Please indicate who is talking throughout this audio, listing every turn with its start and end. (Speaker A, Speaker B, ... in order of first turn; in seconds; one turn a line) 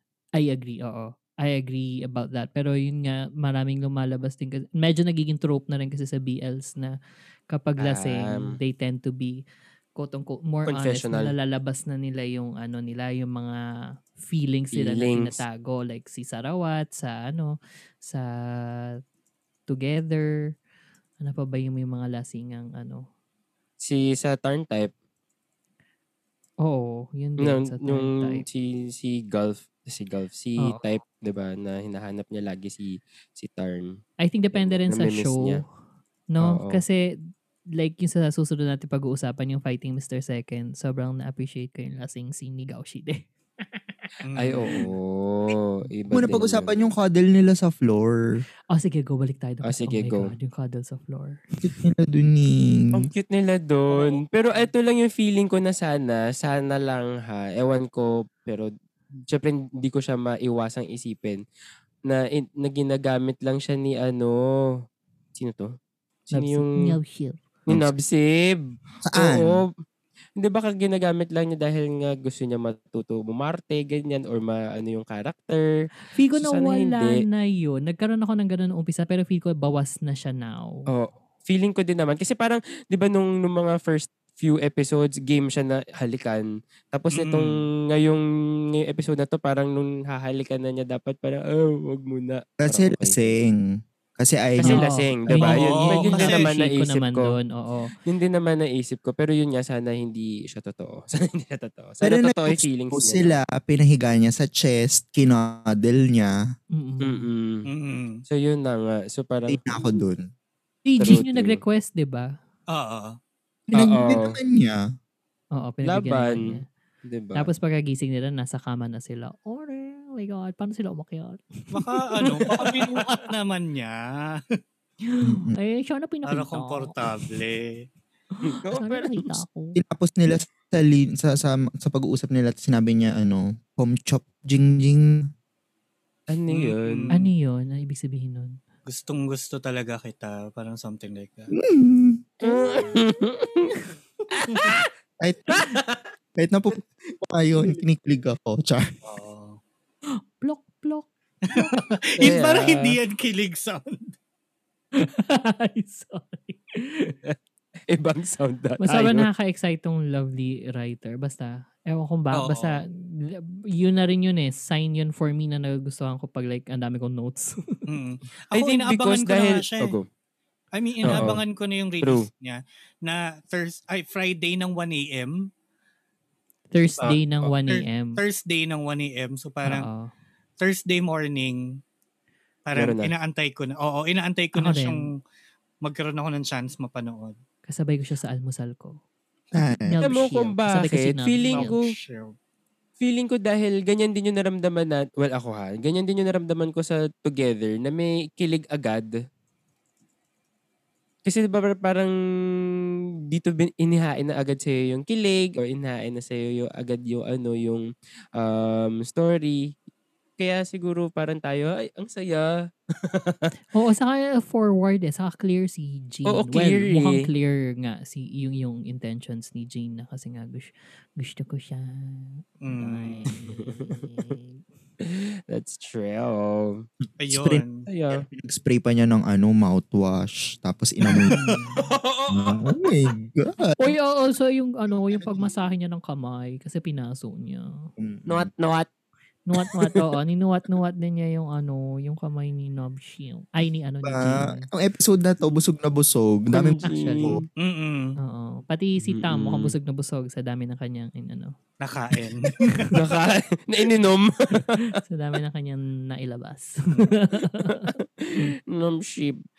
Speaker A: 0.4-6.9
Speaker A: 7.5-9.4
Speaker B: 7.8-8.5
Speaker A: 9.9-13.6
Speaker B: 10.7-11.3
Speaker A: 14.2-19.0
Speaker B: 14.7-15.4
Speaker A: 19.7-20.5
Speaker A: 21.2-23.0
Speaker B: 23.8-24.9
Speaker A: 26.6-28.4
Speaker B: 27.4-34.0
Speaker A: 30.6-30.9
Speaker A: 34.2-35.6
Speaker B: 34.5-35.6
Speaker A: 36.3-37.0
Speaker B: 36.4-36.8
Speaker A: 37.8-43.9
Speaker C: 44.2-44.9
Speaker B: 44.4-46.7
Speaker D: 46.1-48.2
Speaker A: 48.7-51.4
Speaker B: 49.6-50.3
Speaker D: 51.6-53.1
Speaker B: 52.9-58.7
Speaker A: 53.9-54.7
Speaker B: 59.3-61.4
Speaker B: 62.1-64.4
Speaker B: 65.3-65.7
Speaker B: 66.3-67.0
Speaker A: 66.3-67.4
Speaker B: 67.7-69.7
Speaker D: 69.0-69.6
Speaker B: 70.4-75.7
Speaker A: 76.1-80.8
Speaker B: 76.3-77.2
Speaker B: 80.9-88.2
Speaker C: 87.1-87.7
Speaker B: 88.8-93.2
Speaker D: 92.6-93.6
Speaker D: 94.2-94.8
Speaker B: 94.6-97.4
Speaker A: 94.6-97.9
Speaker C: 95.4-96.5
Speaker B: 98.0-103.3
Speaker D: 102.0-106.3
Speaker A: 106.7-107.3
Speaker B: 107.0-107.6
Speaker C: 107.6-108.2
Speaker B: 108.3-109.6
Speaker D: 109.5-110.2
Speaker A: 110.8-112.3
Speaker B: 111.0-111.6
Speaker C: 112.7-113.2
Speaker D: 113.7-114.8
Speaker B: 113.7-114.4
Speaker A: 115.5-116.7
Speaker B: 115.8-117.5
Speaker A: 117.3-123.1
Speaker C: 121.7-124.4
Speaker A: 125.1-127.3
Speaker D: 125.2-125.6
Speaker C: 126.2-127.8
Speaker A: 128.4-129.8
Speaker B: 128.5-129.4
Speaker D: 129.8-135.2
Speaker B: 136.3-137.2
Speaker C: 136.5-137.2
Speaker A: 137.1-138.6
Speaker C: 138.9-141.5
Speaker D: 141.6-142.2
Speaker B: 142.4-144.9
Speaker D: 145.2-145.5
Speaker B: 145.5-146.1
Speaker D: 146.3-148.9
Speaker C: 149.0-149.6
Speaker A: 150.2-151.7
Speaker C: 151.5-154.1
Speaker B: 152.2-153.0
Speaker A: 154.9-157.1
Speaker B: 157.9-159.3
Speaker A: 158.8-167.8
Speaker C: 162.3-162.8
Speaker C: 167.9-170.0
Speaker B: 168.5-170.1
Speaker C: 170.7-175.3
Speaker A: 171.0-171.3
Speaker B: 171.1-171.4
Speaker B: 172.0-172.3
Speaker A: 176.7-178.2
Speaker C: 177.0-179.9
Speaker A: 179.6-180.1
Speaker C: 180.6-181.6
Speaker C: 182.7-185.1
Speaker B: 182.8-183.1
Speaker A: 184.6-185.0
Speaker C: 185.8-187.3
Speaker A: 187.6-189.0
Speaker D: 189.5-190.0
Speaker A: 189.9-191.8
Speaker B: 190.0-191.8
Speaker C: 191.5-192.3
Speaker B: 193.0-199.1
Speaker B: 201.2-202.1
Speaker B: 203.3-207.8
Speaker B: 208.4-209.7
Speaker B: 210.4-213.5
Speaker A: 213.7-224.6
Speaker B: 216.2-217.3
Speaker C: 222.6-223.3
Speaker B: 223.5-224.1
Speaker B: 225.0-226.8
Speaker C: 227.2-227.9
Speaker D: 227.3-231.3
Speaker B: 227.9-228.2
Speaker A: 231.3-231.9
Speaker B: 231.8-232.9
Speaker D: 232.3-233.9
Speaker A: 233.8-237.9
Speaker D: 235.1-235.5
Speaker D: 238.0-238.5
Speaker B: 238.3-238.9
Speaker A: 239.5-244.7
Speaker B: 239.6-240.0
Speaker D: 244.0-247.4
Speaker B: 246.5-247.3
Speaker A: 246.8-247.4
Speaker C: 247.6-248.2
Speaker A: 248.2-251.6
Speaker B: 249.0-249.7
Speaker C: 251.8-252.9
Speaker A: 252.6-253.0
Speaker B: 252.9-255.0
Speaker A: 254.7-258.5
Speaker B: 257.6-259.4